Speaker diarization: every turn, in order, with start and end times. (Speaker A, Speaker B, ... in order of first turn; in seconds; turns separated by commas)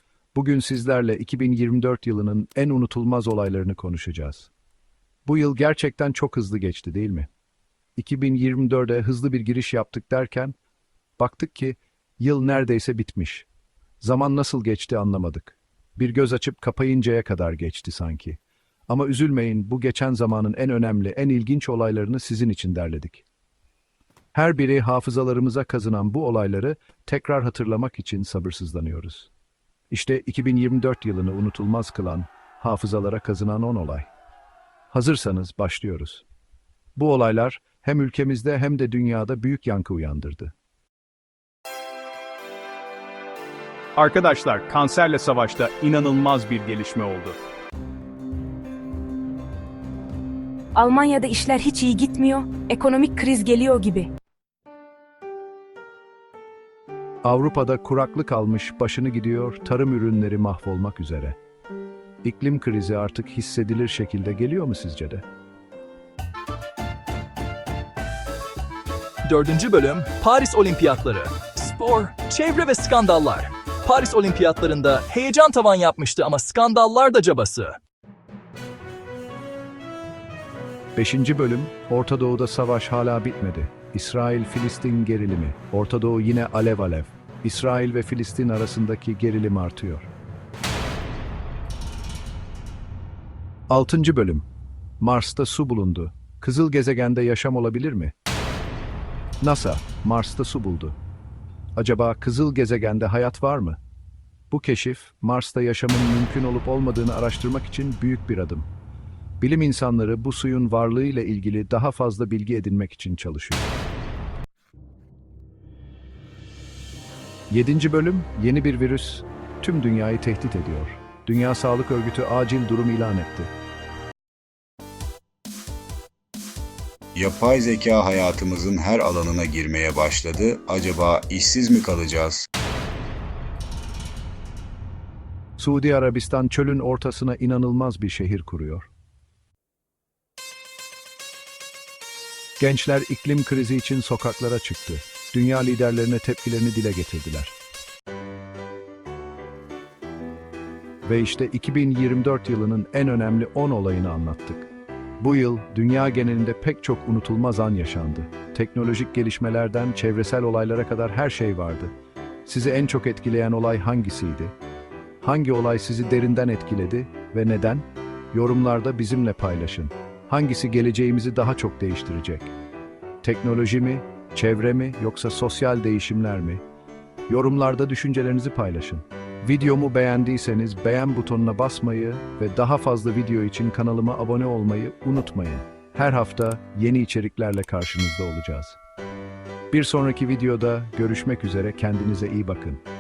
Speaker A: 0.3-4.5, Speaker A: 5.3-7.3, Speaker A: 8.0-10.6, Speaker A: 11.2-13.5, Speaker A: 14.0-23.2, Speaker A: 24.3-29.3, Speaker A: 29.9-34.1, Speaker A: 34.9-36.2, Speaker A: 37.0-40.5, Speaker B: 44.0-47.4, Speaker C: 50.8-54.1, Speaker A: 57.2-61.4, Speaker A: 62.2-65.2, Speaker D: 69.2-77.8, Speaker A: 81.0-90.1, Speaker A: 93.7-94.5, Speaker A: 95.0-98.1, Speaker A: 99.4-101.0, Speaker A: 101.8-103.8, Speaker A: 104.5-108.7, Speaker A: 109.4-113.7, Speaker A: 117.5-123.5, Speaker E: 127.2-132.5, Speaker A: 135.6-138.9, Speaker A: 142.6-147.6, Speaker A: 151.1-154.7, Speaker A: 155.2-161.9, Speaker A: 162.4-164.6, Speaker A: 165.2-172.5, Speaker A: 173.2-176.6, Speaker A: 177.3-188.8, Speaker A: 189.7-192.8